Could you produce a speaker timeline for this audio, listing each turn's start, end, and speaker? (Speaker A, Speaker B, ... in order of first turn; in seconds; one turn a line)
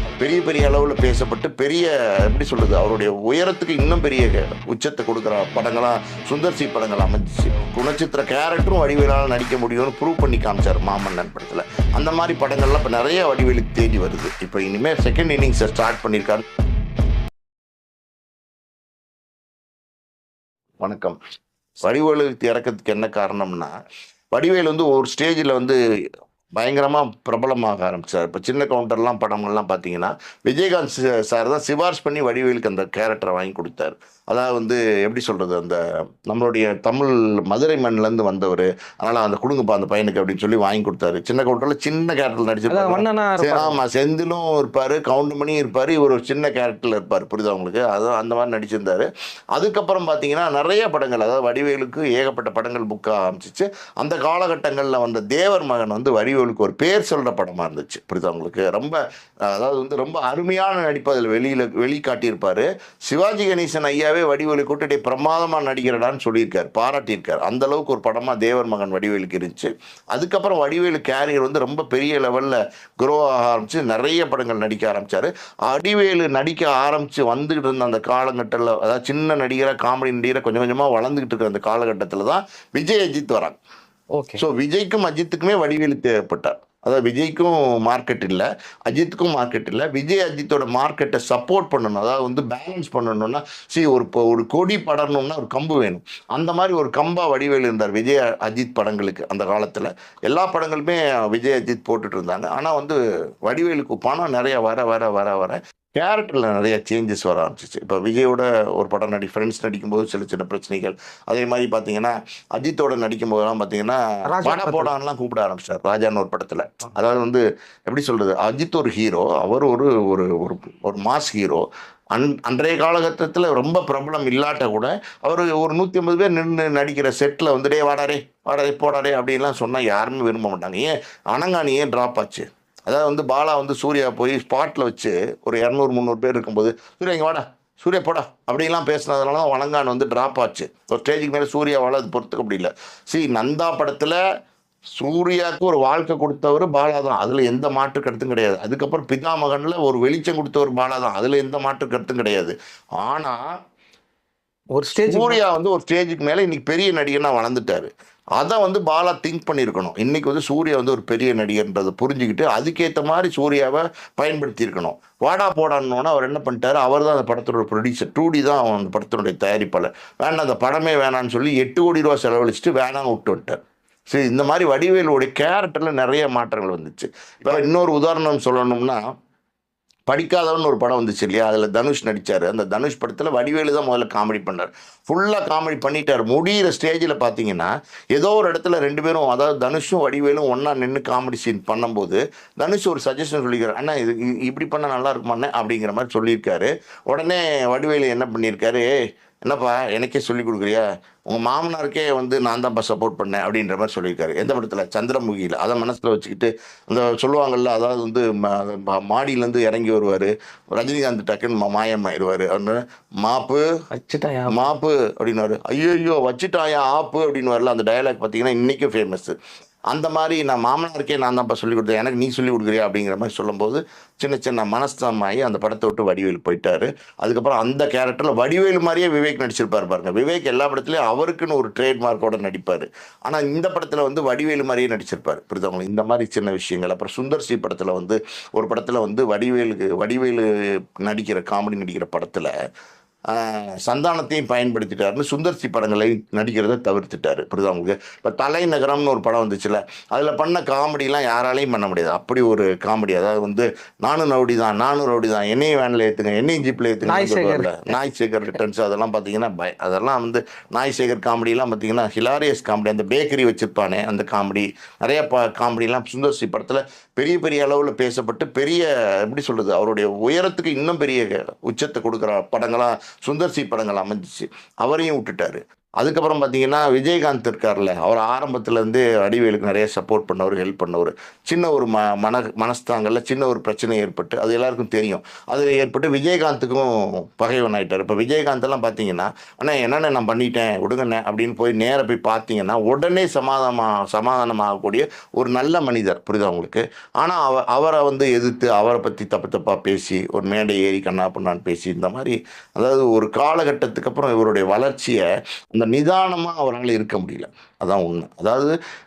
Speaker A: 0.2-16.4
Speaker A: 20.8-21.2
Speaker A: 21.8-23.7
Speaker A: 24.3-25.8
Speaker A: 26.6-59.0
Speaker B: 42.7-43.8
Speaker A: 59.5-83.6
Speaker B: 84.1-84.4
Speaker A: 84.4-144.2
Speaker B: 114.3-114.9
Speaker A: 145.0-153.4
Speaker B: 154.7-155.4
Speaker A: 155.0-173.6
Speaker A: 174.1-179.0
Speaker A: 180.1-198.9
Speaker A: 199.5-213.7
Speaker B: 213.9-214.6
Speaker A: 214.5-219.3
Speaker A: 219.9-240.4
Speaker A: 241.0-242.5
Speaker A: 243.3-308.7
Speaker B: 257.0-257.9